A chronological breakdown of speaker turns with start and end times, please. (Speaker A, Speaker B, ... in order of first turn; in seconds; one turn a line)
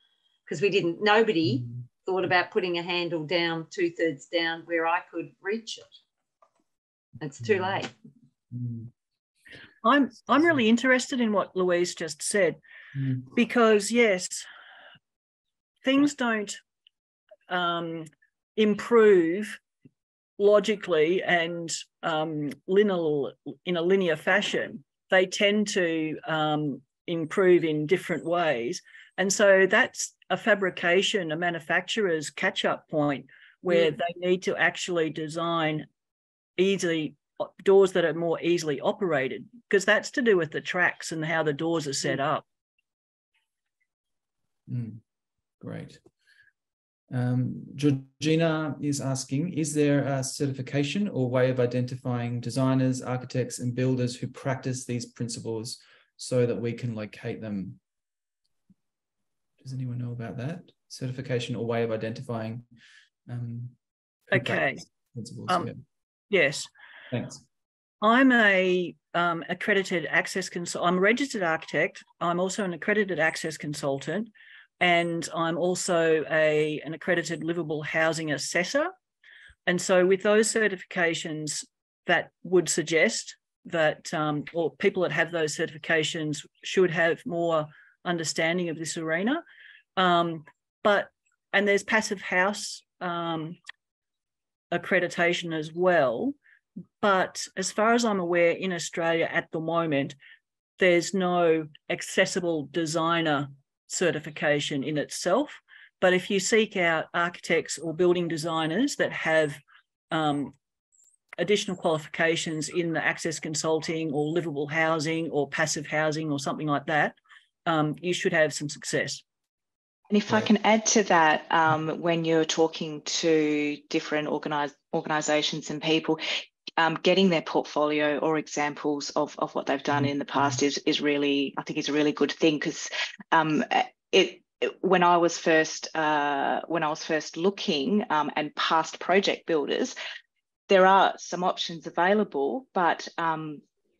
Speaker A: 0.5-5.8
Speaker A: 7.2-7.9
Speaker B: 7.4-7.8
Speaker B: 8.5-8.9
Speaker C: 9.8-12.6
Speaker B: 13.0-13.3
Speaker C: 13.3-14.4
Speaker C: 15.8-16.6
Speaker C: 17.5-19.6
Speaker C: 20.4-35.9
Speaker C: 36.6-42.4
Speaker B: 44.7-45.0
Speaker B: 45.6-46.0
Speaker B: 47.1-57.8
Speaker B: 59.6-62.6
Speaker B: 63.3-63.8
Speaker B: 64.3-65.8
Speaker C: 64.3-64.8
Speaker C: 66.3-66.7
Speaker B: 67.1-67.4
Speaker C: 68.0-78.9
Speaker C: 79.7-89.4
Speaker C: 90.0-93.6
Speaker C: 94.7-96.3
Speaker C: 97.0-100.2
Speaker C: 100.8-110.5
Speaker C: 111.4-119.2
Speaker D: 120.1-126.2
Speaker D: 126.8-139.9
Speaker B: 129.9-130.5
Speaker D: 140.7-143.6